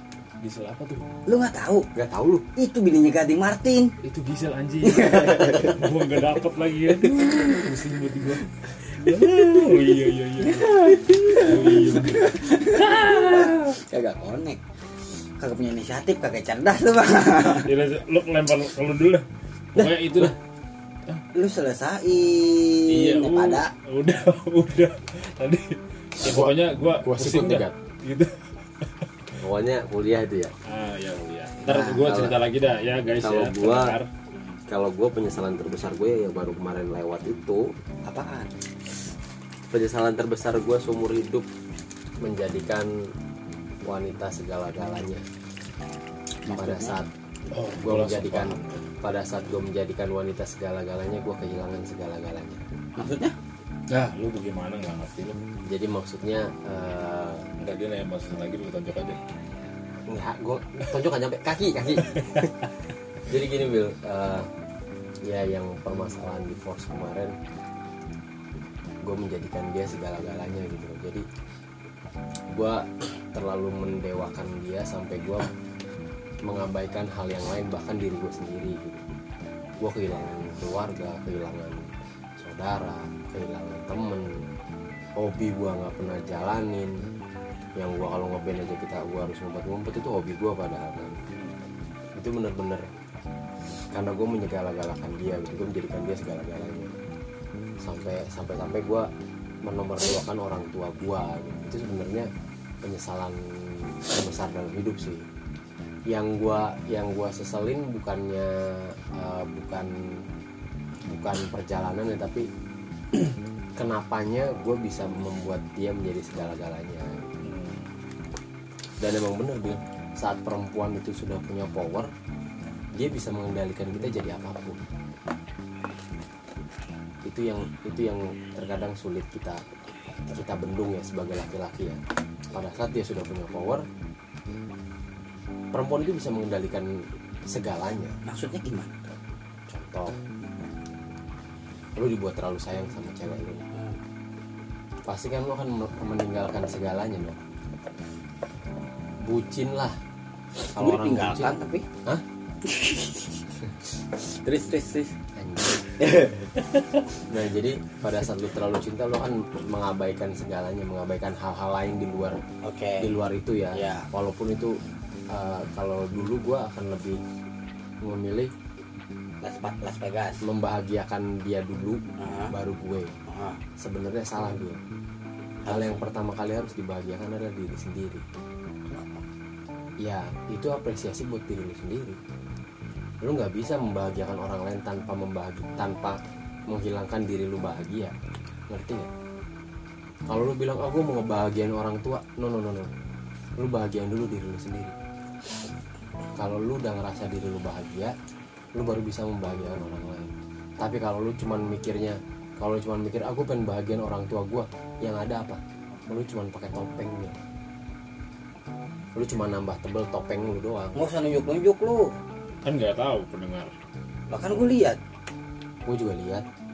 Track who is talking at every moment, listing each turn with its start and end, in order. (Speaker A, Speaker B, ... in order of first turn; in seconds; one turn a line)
Speaker A: 0.4-1.1
Speaker B: 1.3-1.9
Speaker C: 1.9-2.4
Speaker B: 2.5-3.9
Speaker A: 4.0-13.5
Speaker B: 4.8-5.8
Speaker B: 10.4-14.6
Speaker B: 15.4-17.7
Speaker A: 17.6-20.4
Speaker C: 19.8-20.3
Speaker B: 21.3-23.7
Speaker A: 22.9-29.4
Speaker C: 26.2-27.7
Speaker C: 29.4-30.5
Speaker A: 30.6-34.6
Speaker B: 31.6-32.2
Speaker C: 31.9-32.4
Speaker C: 33.2-34.0
Speaker C: 34.7-37.7
Speaker B: 38.1-38.5
Speaker C: 39.7-41.5
Speaker C: 42.2-42.9
Speaker C: 43.8-45.2
Speaker B: 46.5-47.0
Speaker C: 46.5-47.1
Speaker A: 47.5-48.9
Speaker C: 47.8-52.6
Speaker B: 53.0-53.3
Speaker A: 53.9-55.4
Speaker C: 55.7-57.5
Speaker A: 57.6-59.2
Speaker C: 60.1-62.5
Speaker A: 62.1-62.5
Speaker C: 63.3-64.5
Speaker C: 65.2-67.3
Speaker C: 69.0-71.2
Speaker C: 72.5-75.5
Speaker C: 76.4-79.0
Speaker C: 79.8-84.4
Speaker C: 85.2-86.9
Speaker C: 87.8-91.2
Speaker A: 91.3-91.6
Speaker C: 92.2-92.8
Speaker C: 93.9-96.9
Speaker C: 97.8-99.1
Speaker C: 99.6-102.3
Speaker C: 102.8-105.2
Speaker C: 106.1-110.2
Speaker C: 111.0-112.5
Speaker C: 113.8-117.3
Speaker A: 117.4-117.9
Speaker C: 119.0-122.1
Speaker C: 123.0-124.8
Speaker C: 127.2-129.6
Speaker C: 130.3-132.0
Speaker C: 132.5-133.8
Speaker C: 135.7-138.2
Speaker B: 138.2-139.1
Speaker C: 139.7-140.2
Speaker C: 141.9-143.7
Speaker C: 145.1-147.4
Speaker C: 149.2-150.0
Speaker C: 150.6-152.2
Speaker B: 150.7-151.8
Speaker B: 152.6-153.4
Speaker B: 154.4-155.1
Speaker C: 155.3-155.8
Speaker B: 156.0-156.8
Speaker C: 157.3-162.4
Speaker B: 162.6-163.1
Speaker C: 163.0-164.8
Speaker B: 163.7-164.1
Speaker C: 165.3-167.2
Speaker C: 168.0-168.5
Speaker B: 169.4-170.4
Speaker C: 170.4-173.1
Speaker B: 172.2-172.5
Speaker B: 173.3-173.6
Speaker C: 173.8-174.8
Speaker B: 175.6-176.0
Speaker C: 175.7-178.2
Speaker B: 178.9-179.2
Speaker C: 180.0-182.2
Speaker C: 183.2-186.2
Speaker C: 186.7-188.1
Speaker C: 188.7-189.1
Speaker C: 190.3-192.9
Speaker C: 193.6-194.9
Speaker C: 196.3-198.1
Speaker C: 198.7-207.3
Speaker C: 209.2-210.9
Speaker B: 210.9-212.1
Speaker A: 212.6-213.7
Speaker B: 214.3-215.0
Speaker C: 215.8-216.4